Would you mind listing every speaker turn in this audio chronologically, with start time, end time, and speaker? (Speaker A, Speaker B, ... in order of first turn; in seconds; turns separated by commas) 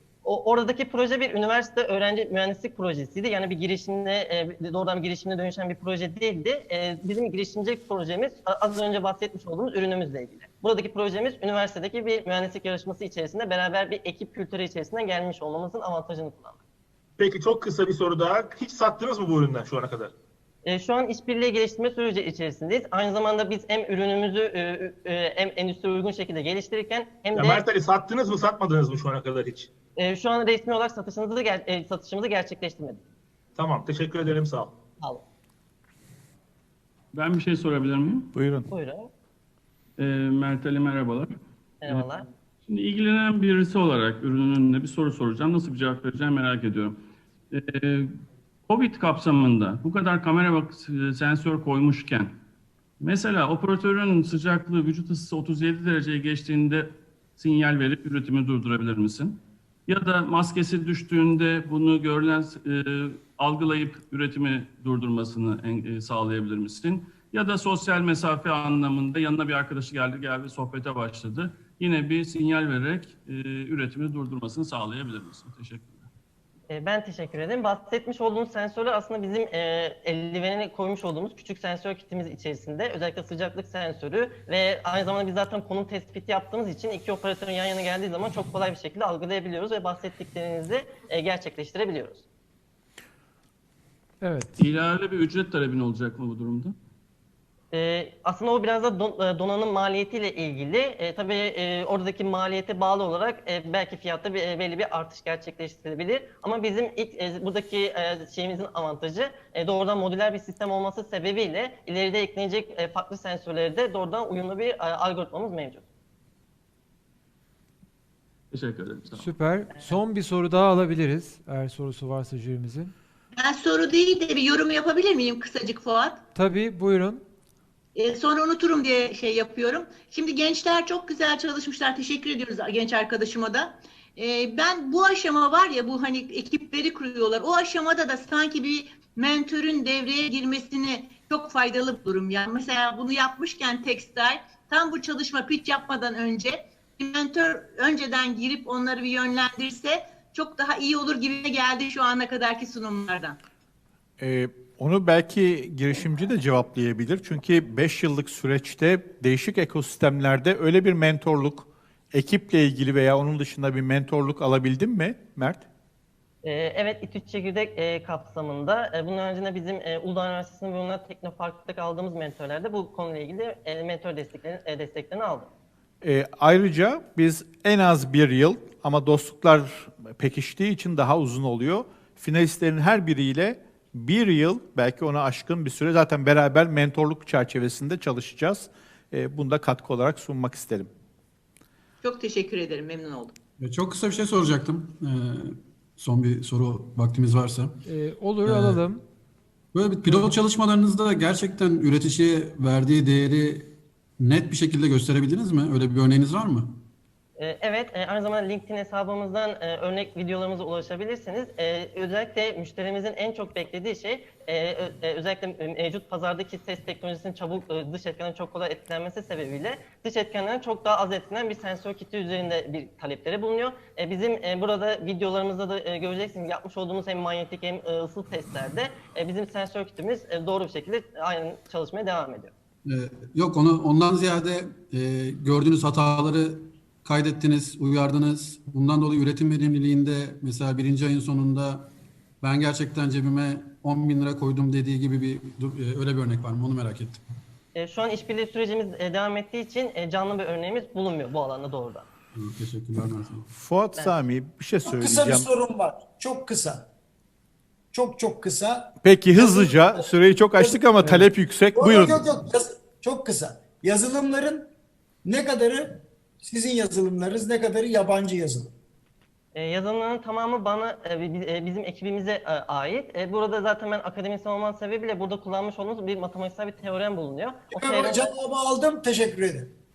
Speaker A: 0.2-16.6, Speaker B: 17.2-20.1, Speaker A: 20.6-27.6, Speaker B: 27.4-29.7, Speaker A: 30.0-33.0, Speaker B: 33.5-34.7, Speaker C: 37.1-38.3, Speaker D: 38.3-38.7, Speaker A: 38.7-39.1, Speaker C: 40.0-41.3, Speaker A: 41.8-42.2, Speaker C: 42.7-47.0, Speaker C: 47.5-48.1, Speaker C: 48.7-52.3, Speaker C: 53.0-76.1, Speaker A: 76.7-92.2, Speaker E: 94.2-94.5, Speaker C: 94.6-96.7, Speaker A: 97.7-115.8, Speaker C: 118.5-119.3, Speaker E: 119.2-122.9, Speaker F: 123.4-126.2, Speaker E: 126.3-127.2, Speaker F: 128.0-153.3, Speaker D: 154.2-165.7, Speaker A: 166.4-175.5, Speaker D: 176.0-190.9, Speaker F: 192.0-193.3, Speaker G: 193.6-197.8, Speaker E: 197.8-199.0, Speaker G: 198.4-198.8, Speaker G: 199.7-206.8, Speaker A: 207.4-232.5, Speaker G: 232.8-241.9, Speaker G: 242.4-247.2, Speaker A: 247.7-252.1, Speaker G: 252.3-253.4, Speaker D: 253.5-255.5, Speaker H: 254.8-256.9, Speaker H: 257.9-261.2, Speaker D: 259.0-262.2, Speaker H: 261.7-264.7, Speaker H: 265.2-268.7, Speaker A: 269.5-278.3, Speaker H: 277.7-279.7